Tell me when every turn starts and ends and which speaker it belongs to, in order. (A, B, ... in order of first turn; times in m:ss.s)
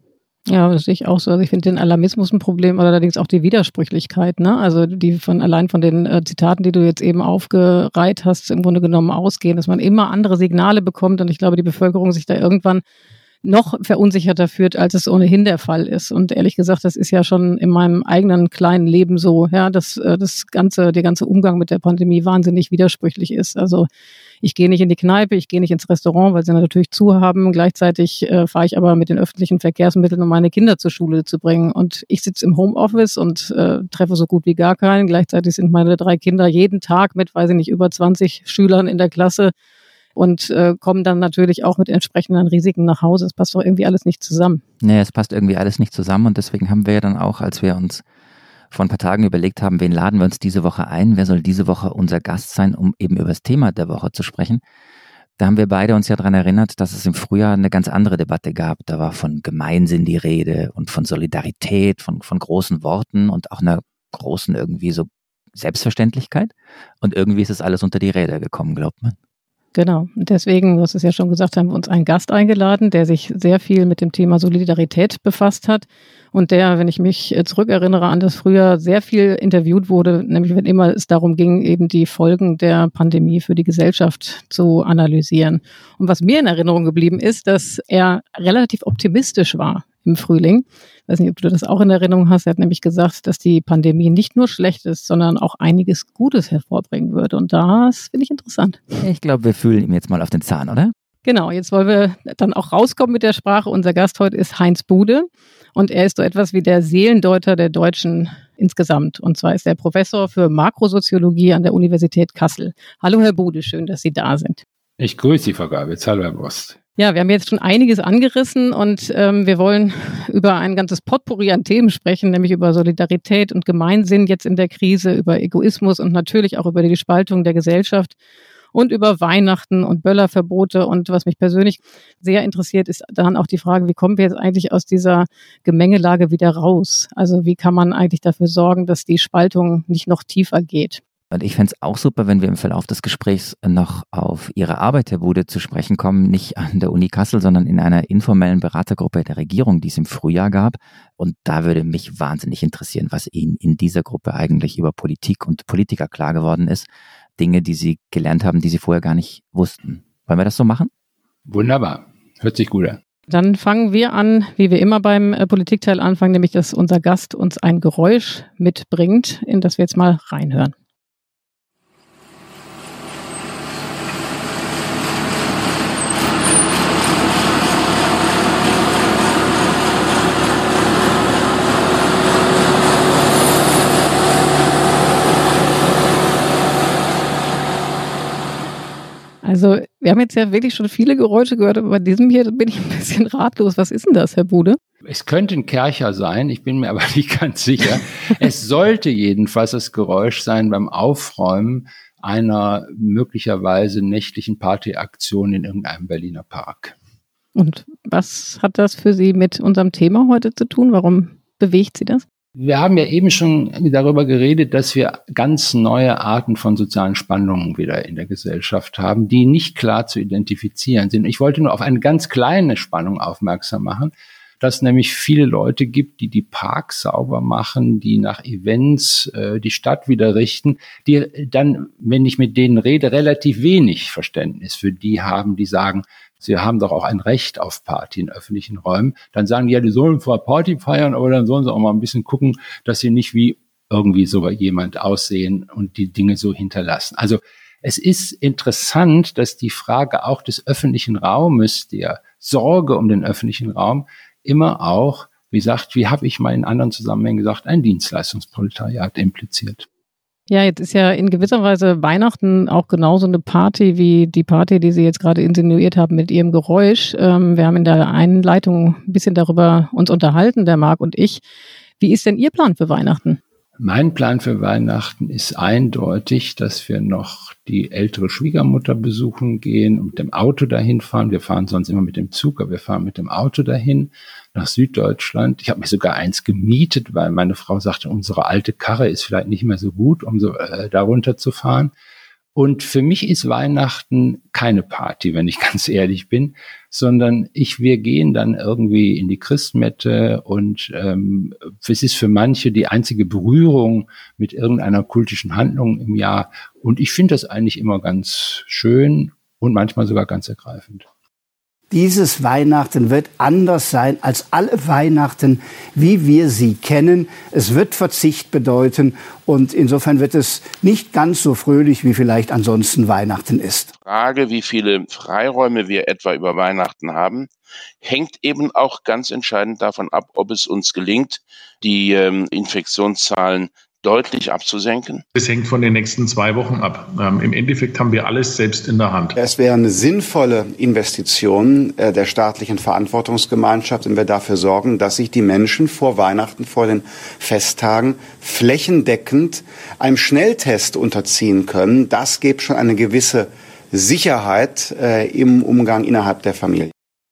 0:00.5-0:12.8 A
0:13.4-0:23.9 A
0:24.4-0:39.5 A
0:40.2-0:44.6 A
0:44.8-0:48.0 B
0:48.7-0:54.6 B
0:55.4-1:09.2 B
1:09.8-1:38.8 A
1:39.0-1:40.9 B
1:41.2-1:54.6 A
1:55.0-1:56.8 C
1:57.0-2:08.2 A
2:08.7-2:21.0 A
2:21.3-2:40.9 B
2:41.5-2:43.0 C
2:43.3-2:50.7 A
3:09.4-3:14.8 A
3:15.0-3:27.0 C
3:27.6-3:32.2 A
3:32.6-4:19.9 C
4:20.5-4:31.4 A
4:32.0-4:33.4 A
4:33.8-4:51.9 C
4:52.6-5:11.1 C
5:11.9-5:23.9 D
5:24.0-5:27.5 E
5:28.0-5:35.2 E
5:35.4-5:39.4 F
5:39.4-5:56.9 G